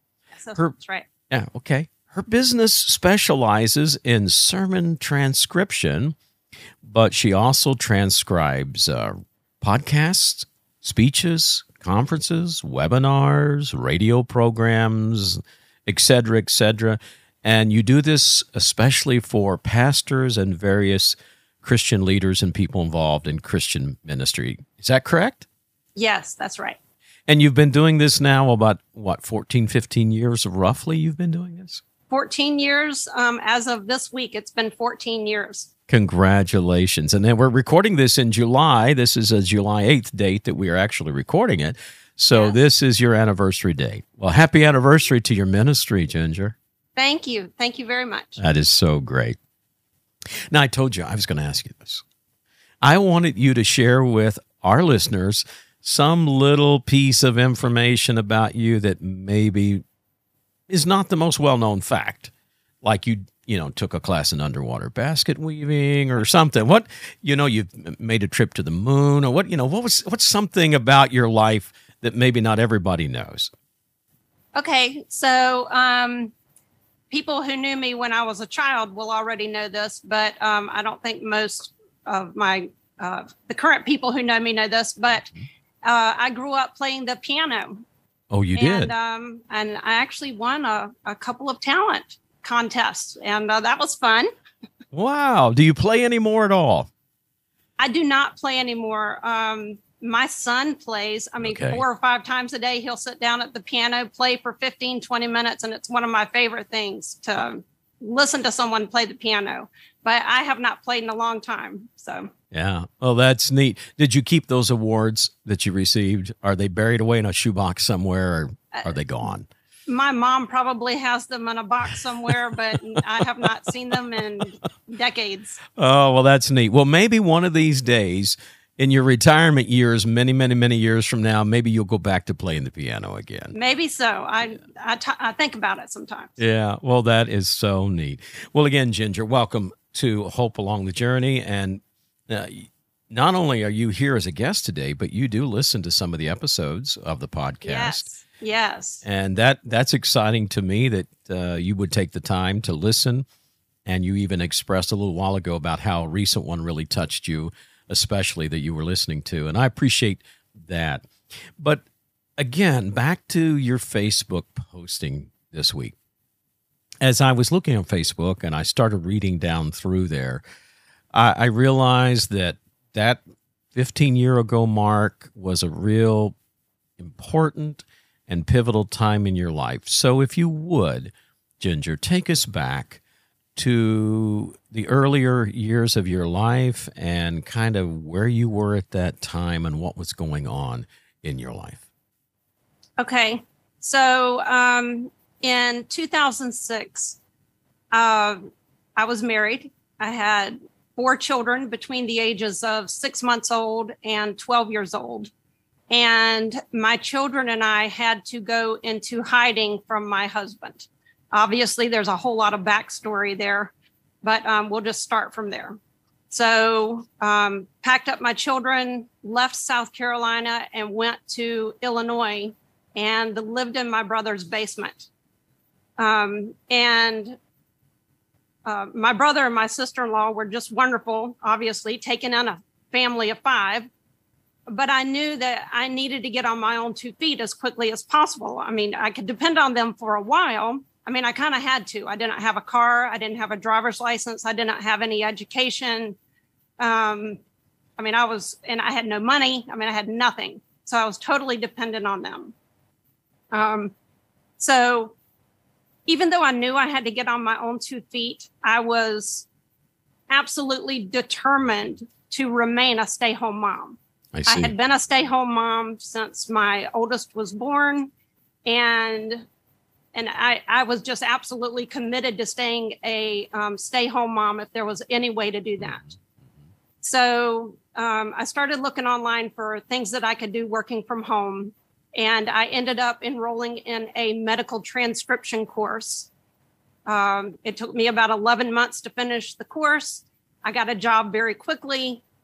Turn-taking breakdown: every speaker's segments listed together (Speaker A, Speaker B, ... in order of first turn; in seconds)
Speaker A: 0.3-1.1, 25.9-26.8, 32.1-35.7, 47.0-48.4, 74.5-76.3, 77.1-85.3, 85.8-87.8, 88.5-94.3, 97.8-112.3, 119.9-125.6, 133.5-136.3, 147.6-149.0, 193.0-197.2, 197.9-198.4, 199.0-205.3, 205.9-215.8, 216.3-225.1, 226.0-227.4, 228.7-233.9, 234.7-246.2, 246.8-247.4, 248.0-252.5, 253.5-253.9, 254.6-255.1, 256.1-259.5, 260.3-268.1, 268.6-269.5, 270.1-276.0, 277.0-286.3, 287.1-292.2
Speaker B: 1.3-6.2, 6.8-25.4, 27.3-31.8, 35.9-46.5, 48.4-49.4, 50.5-52.0, 52.8-59.8, 60.7-62.3, 62.8-73.5, 88.3-88.9, 94.9-96.9, 101.4-101.8, 112.5-119.5, 125.8-133.5, 136.4-148.1, 149.0-153.2, 153.8-161.8, 162.4-165.9, 167.0-170.4, 171.1-173.2, 173.7-176.3, 177.0-183.0, 183.6-191.8, 264.3-264.7